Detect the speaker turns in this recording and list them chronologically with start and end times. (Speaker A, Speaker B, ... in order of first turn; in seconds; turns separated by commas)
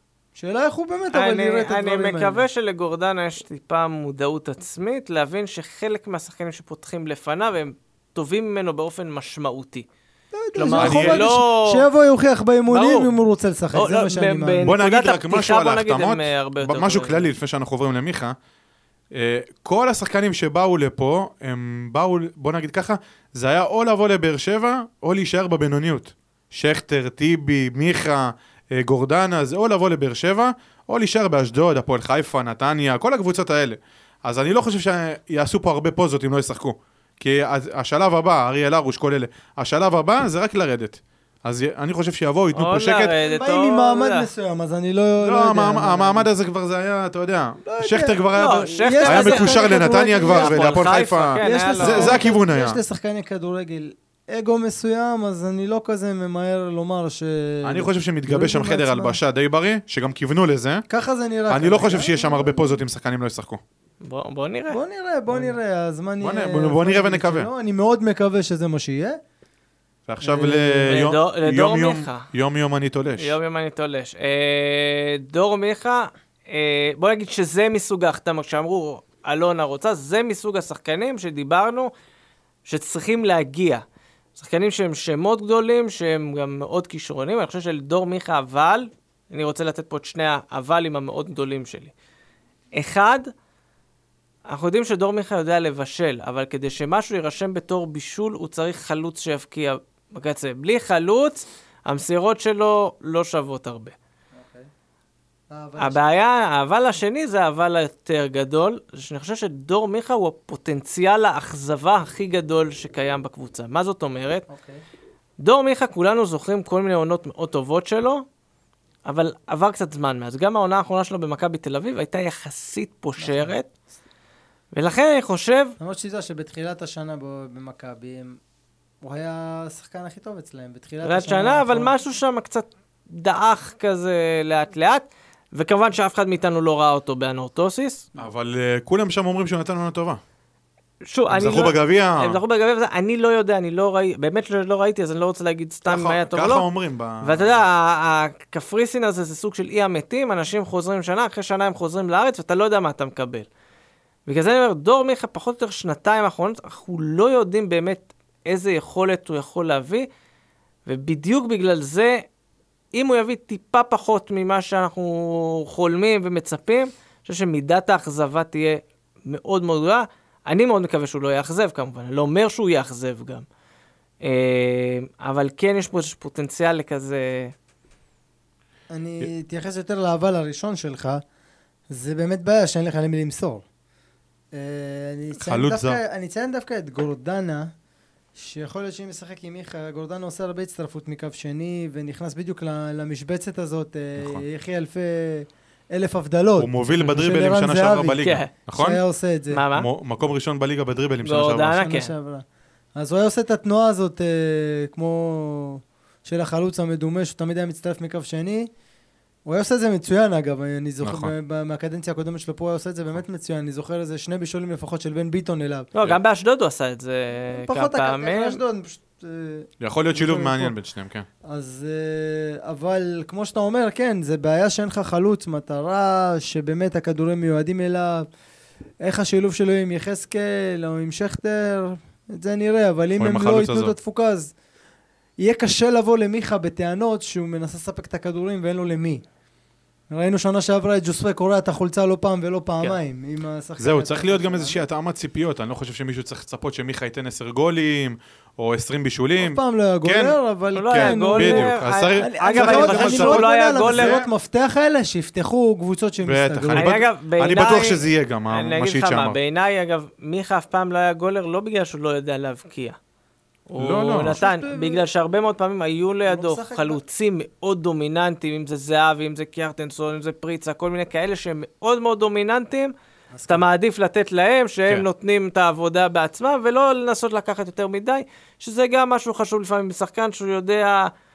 Speaker A: 0.3-2.4, Speaker B: 1.1-9.9, Speaker A: 10.3-14.7, Speaker B: 10.5-11.8, Speaker C: 10.8-11.3, Speaker B: 12.7-13.2, Speaker B: 13.7-17.3, Speaker C: 14.6-18.4, Speaker C: 19.1-43.1, Speaker B: 42.5-44.3, Speaker A: 43.2-46.3, Speaker C: 45.2-52.8, Speaker A: 47.6-50.8, Speaker B: 48.3-52.3, Speaker A: 51.4-59.2, Speaker C: 57.6-60.8, Speaker A: 60.9-62.8, Speaker C: 61.5-63.6, Speaker B: 64.0-64.8, Speaker A: 64.7-69.2, Speaker C: 66.2-67.5, Speaker C: 70.1-73.3, Speaker A: 70.2-71.0, Speaker B: 70.9-72.3, Speaker B: 73.2-81.9, Speaker B: 82.6-83.8, Speaker B: 84.3-91.9, Speaker B: 92.7-93.3, Speaker B: 94.5-103.9, Speaker A: 104.3-104.7, Speaker A: 105.5-106.0, Speaker B: 105.8-114.4, Speaker A: 114.5-114.8, Speaker B: 115.4-118.2, Speaker B: 119.0-123.7, Speaker A: 123.2-123.5, Speaker B: 124.7-125.8, Speaker A: 125.8-128.4, Speaker A: 129.0-131.9, Speaker B: 131.0-138.1, Speaker C: 138.2-140.2, Speaker B: 141.0-146.7, Speaker C: 141.3-142.4, Speaker C: 145.8-147.5, Speaker B: 147.2-153.5, Speaker B: 154.3-160.1, Speaker B: 160.8-162.2, Speaker B: 162.9-173.4, Speaker B: 174.2-177.5, Speaker A: 178.9-181.2, Speaker A: 181.9-183.6, Speaker A: 184.5-187.7, Speaker C: 185.4-186.0, Speaker A: 188.3-199.6, Speaker C: 194.2-194.4, Speaker C: 196.6-199.0, Speaker B: 198.2-198.5, Speaker B: 199.5-199.9, Speaker C: 199.7-201.8, Speaker B: 201.2-202.1, Speaker A: 201.7-202.4, Speaker A: 202.9-208.7, Speaker A: 209.4-215.9, Speaker C: 211.0-211.3, Speaker B: 215.9-218.6, Speaker A: 217.5-220.7, Speaker C: 219.8-221.3, Speaker A: 221.4-228.3, Speaker A: 229.0-234.5, Speaker C: 233.2-233.9, Speaker A: 235.4-239.2, Speaker A: 240.1-244.8, Speaker C: 243.8-250.4, Speaker A: 249.4-257.0, Speaker B: 250.7-254.2, Speaker C: 250.9-254.3, Speaker C: 256.2-259.4, Speaker B: 256.7-263.0, Speaker B: 263.7-272.9, Speaker C: 263.8-264.4, Speaker A: 264.2-265.1, Speaker A: 266.3-267.0, Speaker A: 273.3-273.6, Speaker B: 273.5-281.1